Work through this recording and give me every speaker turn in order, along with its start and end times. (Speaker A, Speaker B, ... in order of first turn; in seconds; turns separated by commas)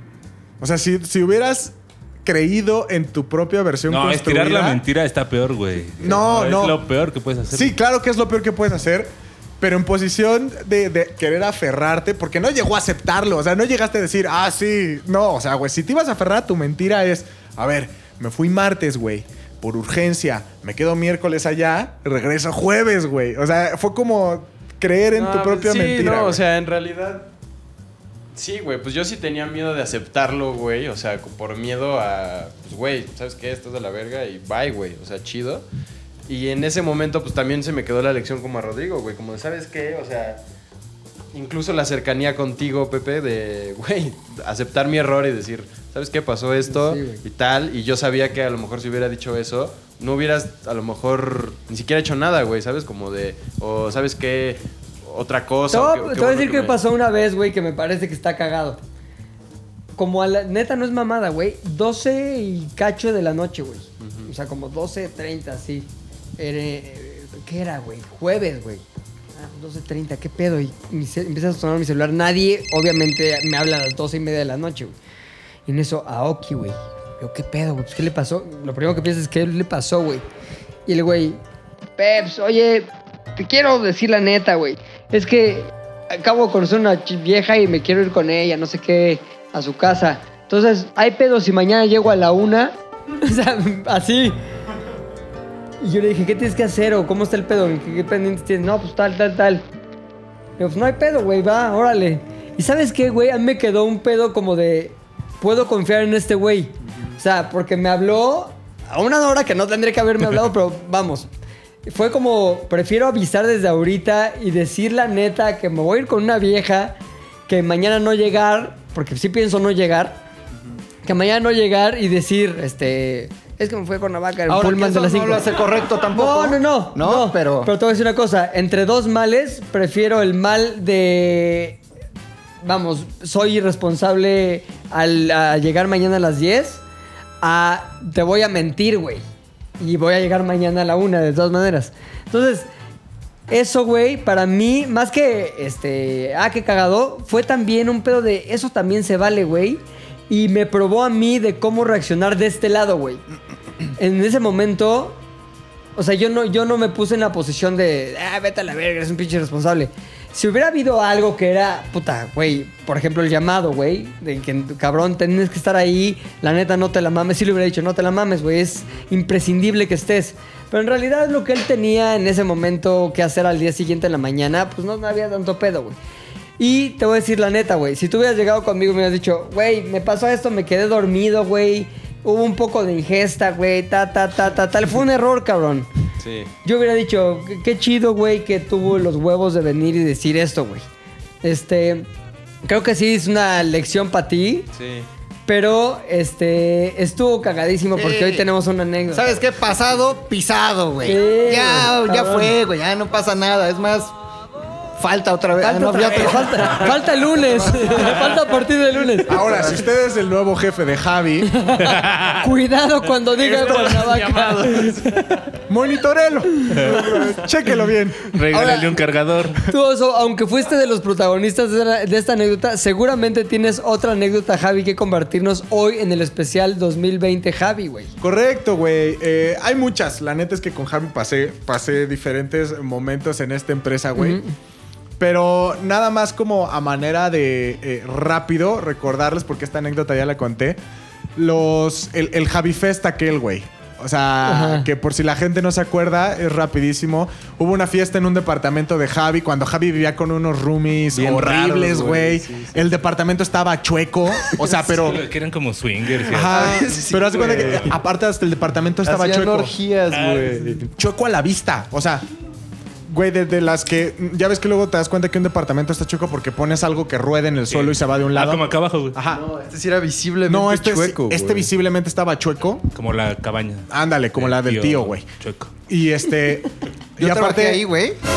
Speaker A: 0.6-4.8, Speaker B: 3.9-7.8, Speaker A: 6.0-6.8, Speaker A: 7.5-26.4, Speaker C: 25.1-27.3, Speaker C: 28.3-35.7, Speaker C: 36.3-40.4, Speaker C: 41.3-56.8, Speaker D: 46.7-47.2, Speaker D: 55.7-58.8, Speaker D: 60.0-68.8, Speaker C: 64.0-64.3, Speaker D: 69.4-75.0, Speaker D: 75.7-80.2, Speaker D: 80.9-81.4, Speaker D: 82.0-94.4, Speaker D: 95.8-99.7, Speaker D: 100.6-111.3, Speaker D: 111.9-117.0, Speaker D: 117.5-120.2, Speaker D: 121.0-125.5, Speaker E: 124.5-127.7, Speaker D: 126.1-131.8, Speaker D: 132.6-136.8, Speaker D: 137.4-139.2, Speaker D: 139.8-142.7, Speaker D: 143.5-153.2, Speaker D: 154.0-155.2, Speaker D: 156.0-176.0, Speaker D: 176.6-185.9, Speaker C: 186.2-186.5, Speaker D: 186.6-190.8, Speaker D: 191.4-192.1, Speaker D: 192.6-194.7, Speaker C: 194.7-195.1, Speaker D: 195.5-199.3, Speaker E: 197.9-198.4, Speaker E: 199.1-204.1, Speaker D: 201.0-202.5, Speaker E: 205.0-208.3, Speaker D: 205.6-209.4, Speaker A: 209.3-211.5, Speaker E: 209.3-209.7, Speaker D: 211.5-214.8, Speaker B: 211.8-212.4, Speaker C: 213.4-215.3, Speaker A: 215.7-218.3, Speaker B: 216.8-217.1, Speaker B: 218.3-219.7, Speaker D: 218.5-219.0, Speaker D: 219.7-228.1, Speaker A: 228.2-234.4, Speaker D: 234.2-234.5, Speaker A: 235.2-240.8, Speaker A: 241.4-255.2, Speaker D: 244.5-244.9, Speaker C: 251.1-252.9, Speaker B: 254.8-256.8, Speaker A: 256.3-259.7, Speaker C: 256.5-257.9, Speaker C: 259.0-260.9, Speaker B: 260.1-260.8, Speaker A: 261.0-262.3, Speaker A: 263.1-269.4, Speaker B: 267.7-269.2, Speaker C: 269.3-271.7, Speaker A: 270.5-272.9, Speaker B: 272.9-275.7, Speaker A: 273.9-275.3, Speaker A: 275.9-277.8, Speaker E: 277.2-278.2